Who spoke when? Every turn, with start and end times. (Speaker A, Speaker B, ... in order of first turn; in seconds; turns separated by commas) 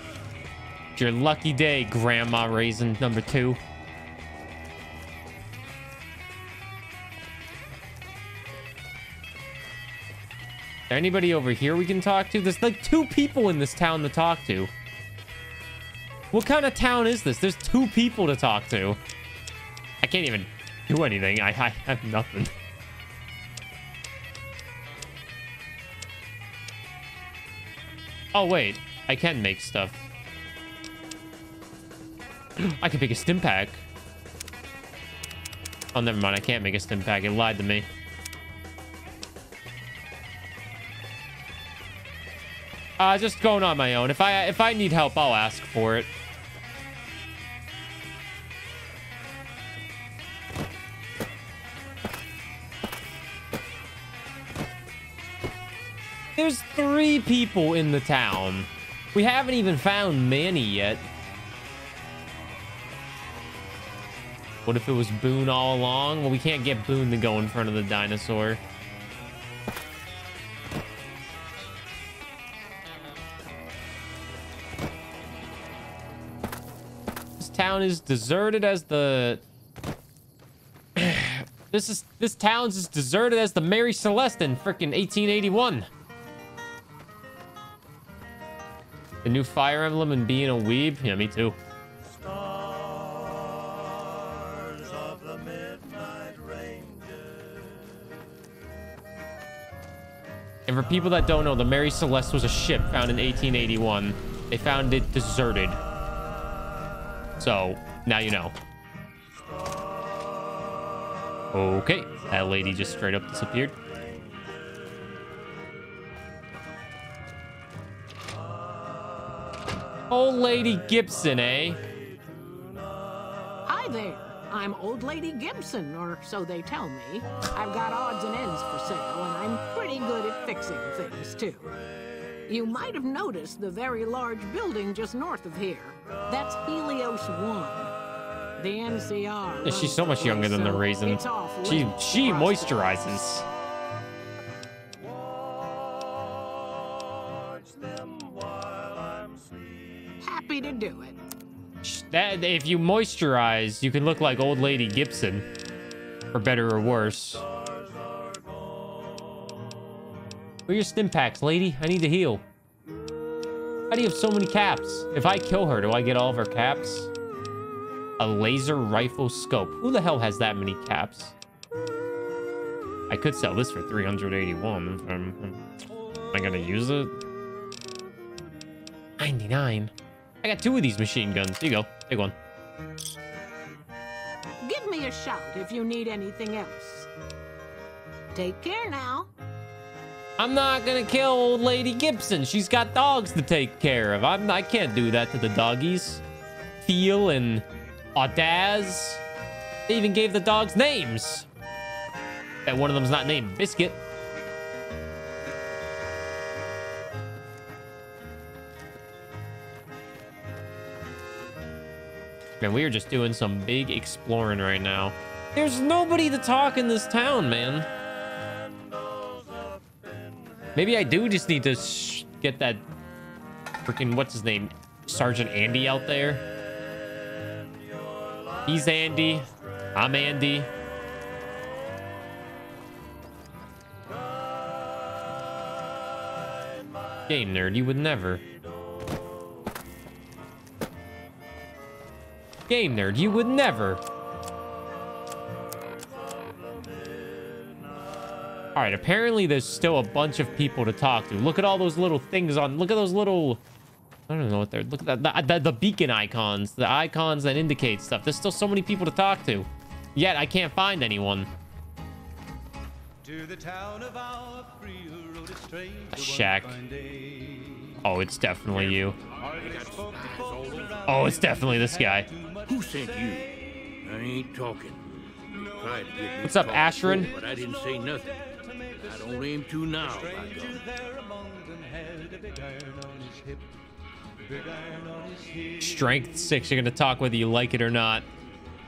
Speaker A: 0.9-3.6, Speaker A: 10.9-14.7, Speaker A: 16.3-19.0, Speaker A: 20.0-22.5, Speaker A: 28.3-30.0, Speaker A: 32.6-33.8, Speaker A: 35.9-37.9, Speaker A: 43.0-46.1, Speaker A: 56.4-61.0, Speaker A: 64.7-68.6, Speaker A: 77.4-79.4, Speaker A: 81.0-85.9, Speaker A: 89.2-91.6, Speaker A: 100.7-105.8, Speaker A: 107.4-108.5, Speaker A: 111.5-113.8, Speaker A: 120.1-121.8, Speaker B: 123.6-131.7, Speaker B: 132.5-137.9, Speaker B: 138.6-143.1, Speaker A: 139.6-143.4, Speaker B: 150.2-151.2, Speaker A: 151.8-155.5, Speaker A: 156.3-157.4, Speaker A: 160.7-162.4, Speaker A: 163.9-167.1, Speaker A: 168.2-171.3, Speaker A: 173.1-175.6, Speaker A: 176.3-177.1, Speaker A: 179.2-179.9, Speaker A: 180.4-182.3, Speaker B: 184.6-187.1, Speaker B: 188.3-189.3, Speaker A: 190.4-196.2, Speaker A: 196.8-197.6, Speaker A: 198.2-199.2, Speaker A: 199.9-201.4, Speaker A: 202.7-204.0, Speaker A: 212.6-217.9, Speaker A: 220.8-222.8, Speaker A: 223.9-226.4, Speaker A: 228.7-230.7, Speaker A: 237.3-238.4, Speaker A: 242.7-244.0, Speaker A: 248.7-253.6, Speaker A: 254.3-261.5, Speaker C: 263.2-267.9, Speaker A: 266.1-266.8, Speaker A: 268.0-269.2, Speaker D: 268.7-271.3, Speaker C: 269.3-273.7, Speaker A: 271.1-272.3, Speaker D: 272.6-278.4, Speaker C: 275.6-283.6, Speaker A: 276.4-277.3, Speaker D: 279.0-280.9, Speaker C: 284.5-286.2, Speaker A: 285.8-288.3